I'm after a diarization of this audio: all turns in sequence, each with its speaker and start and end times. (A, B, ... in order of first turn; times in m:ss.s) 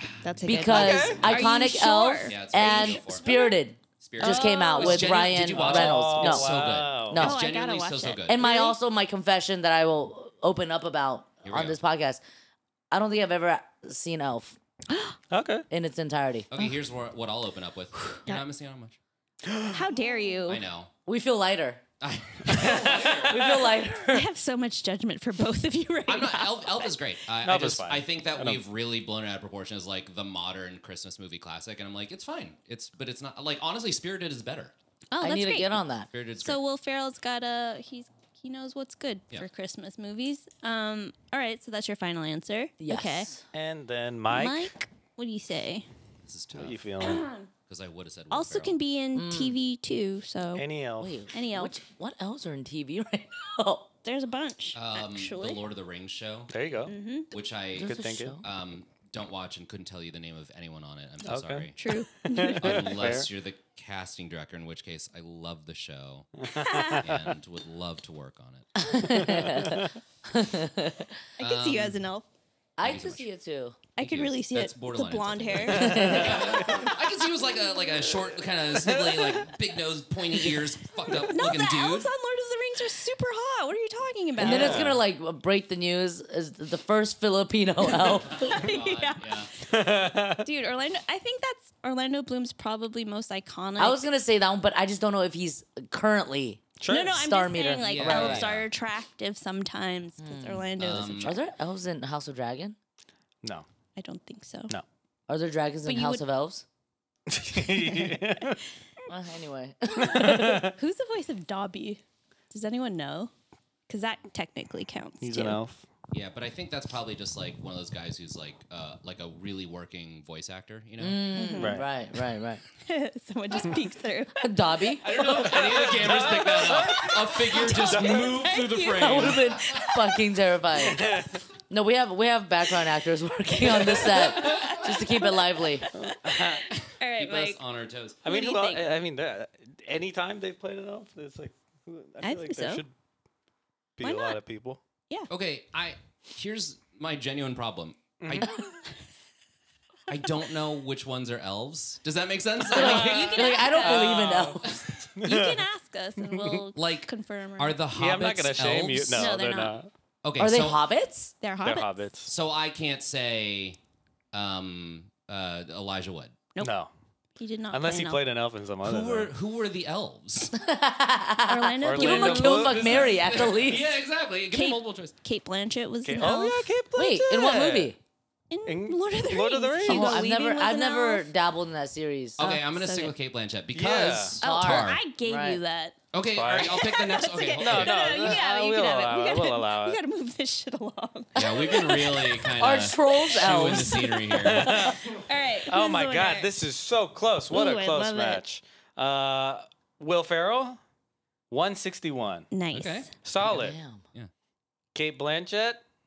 0:00.2-0:03.6 A
0:00.4-0:06.5 B
0:00.6-0:01.2 C
0:02.3-0:03.3 D
0:04.0-0:08.6 D
0:04.2-0:05.0 A
0:04.8-0:07.2 C
0:07.1-0:07.4 B
0:07.2-0:08.7 A
0:08.3-0:12.2 B
0:11.4-0:11.8 D
0:12.9-0:14.6 B
0:15.3-0:15.7 C
0:15.7-0:16.5 B
0:16.5-0:19.0 D
0:19.4-0:19.8 C
0:19.7-0:20.6 A
0:20.5-0:20.9 D
0:21.1-0:21.8 B
0:22.0-0:23.6 D
0:22.5-0:23.1 C
0:23.1-0:24.3 B
0:24.1-0:26.9 A
0:26.1-0:34.7 D
0:27.4-0:28.6 C
0:35.1-0:35.8 A
0:35.2-0:36.1 B
0:36.1-0:36.6 D
0:36.4-0:43.3 A
0:42.8-0:43.4 B
0:43.5-0:44.7 C
0:44.3-0:45.9 A
0:46.2-0:47.1 D
0:46.5-0:47.3 C
0:47.0-0:47.5 A
0:47.7-0:48.8 D
0:48.3-0:50.7 A
0:49.1-0:49.6 B
0:50.6-0:51.2 C
0:51.0-0:53.9 B
0:51.3-0:51.8 A
0:54.0-0:55.6 A
0:54.8-0:56.6 D
0:56.5-0:56.9 C
0:56.9-0:57.3 A
0:57.3-1:01.8 D
0:57.7-0:58.4 B
0:57.8-0:58.4 C
1:01.2-1:03.3 C
1:01.8-1:02.9 A
1:02.6-1:06.4 D
1:06.4-1:07.3 C
1:06.5-1:07.0 A
1:07.0-1:08.8 D
1:08.8-1:11.2 B
1:09.1-1:09.9 C
1:11.4-1:12.3 A
1:11.4-1:12.0 D
1:12.8-1:13.8 B
1:12.8-1:13.3 D
1:14.0-1:16.9 A
1:14.0-1:22.1 D
1:15.7-1:16.9 C
1:15.8-1:16.5 B
1:18.7-1:19.5 C
1:21.1-1:24.8 A
1:24.4-1:28.6 B
1:24.4-1:25.0 C
1:27.9-1:29.5 A
1:28.2-1:29.5 D
1:29.7-1:30.5 C
1:30.4-1:34.0 A
1:33.8-1:38.3 B
1:36.8-1:37.3 C
1:36.9-1:41.4 A
1:37.8-1:38.7 D
1:38.0-1:38.5 C
1:40.2-1:40.7 B
1:40.8-1:41.4 D
1:41.2-1:42.8 B
1:44.0-1:44.7 A
1:45.3-1:46.6 B
1:45.9-1:46.2 A
1:47.3-1:48.6 C
1:49.1-1:50.7 B
1:50.0-1:50.8 C
1:50.2-1:53.3 A
1:53.9-1:55.6 A
1:55.2-1:55.8 C
1:56.1-2:01.2 D
2:01.0-2:02.6 B
2:01.4-2:01.8 A
2:01.6-2:01.9 C
2:02.8-2:04.5 A
2:04.4-2:05.2 B
2:05.0-2:09.9 D
2:05.2-2:07.1 C
2:07.5-2:10.2 A
2:07.8-2:08.3 C
2:09.0-2:11.0 B
2:10.8-2:11.4 C
2:11.7-2:15.9 B
2:14.1-2:14.8 D
2:14.4-2:15.5 A
2:15.9-2:16.6 C
2:16.0-2:17.6 A
2:17.2-2:18.2 D
2:18.2-2:18.8 A
2:18.2-2:22.9 C
2:22.2-2:22.8 A
2:24.0-2:24.8 C
2:24.0-2:24.4 A
2:25.3-2:28.6 D
2:28.2-2:28.5 C
2:30.1-2:33.5 D
2:32.7-2:34.7 B
2:32.7-2:34.3 A
2:33.7-2:34.6 C
2:34.6-2:35.0 D
2:35.2-2:35.6 C
2:35.2-2:37.8 A
2:36.2-2:36.7 C
2:36.8-2:39.3 D
2:37.9-2:39.9 C
2:39.1-2:39.8 A
2:40.2-2:40.8 D
2:40.4-2:41.3 B
2:41.4-2:42.0 A
2:41.6-2:42.3 C
2:42.3-2:43.8 D
2:44.3-2:46.4 D
2:46.6-2:46.9 C
2:47.4-2:48.2 A
2:47.7-2:49.3 C
2:48.8-2:50.6 D
2:50.6-2:53.9 B
2:51.5-2:53.0 A
2:51.8-2:53.3 C
2:52.7-2:55.1 D
2:54.5-2:56.8 A
2:56.0-2:57.9 C
2:56.9-2:58.0 B
2:58.5-3:01.3 A
2:58.7-3:00.1 C
2:59.9-3:02.5 B
3:02.4-3:05.0 D
3:02.4-3:03.1 A
3:03.7-3:04.4 C
3:04.4-3:05.6 B
3:04.4-3:06.0 A
3:06.1-3:08.4 D
3:06.3-3:06.8 C
3:06.6-3:12.0 A
3:07.6-3:10.0 C
3:11.4-3:14.9 D
3:11.4-3:14.4 B
3:14.4-3:15.1 C
3:14.7-3:16.5 A
3:15.7-3:20.8 C
3:17.5-3:18.4 A
3:21.5-3:22.5 C
3:22.5-3:23.1 A
3:22.7-3:23.1 D
3:23.2-3:23.8 C
3:23.4-3:24.0 B
3:25.0-3:25.8 C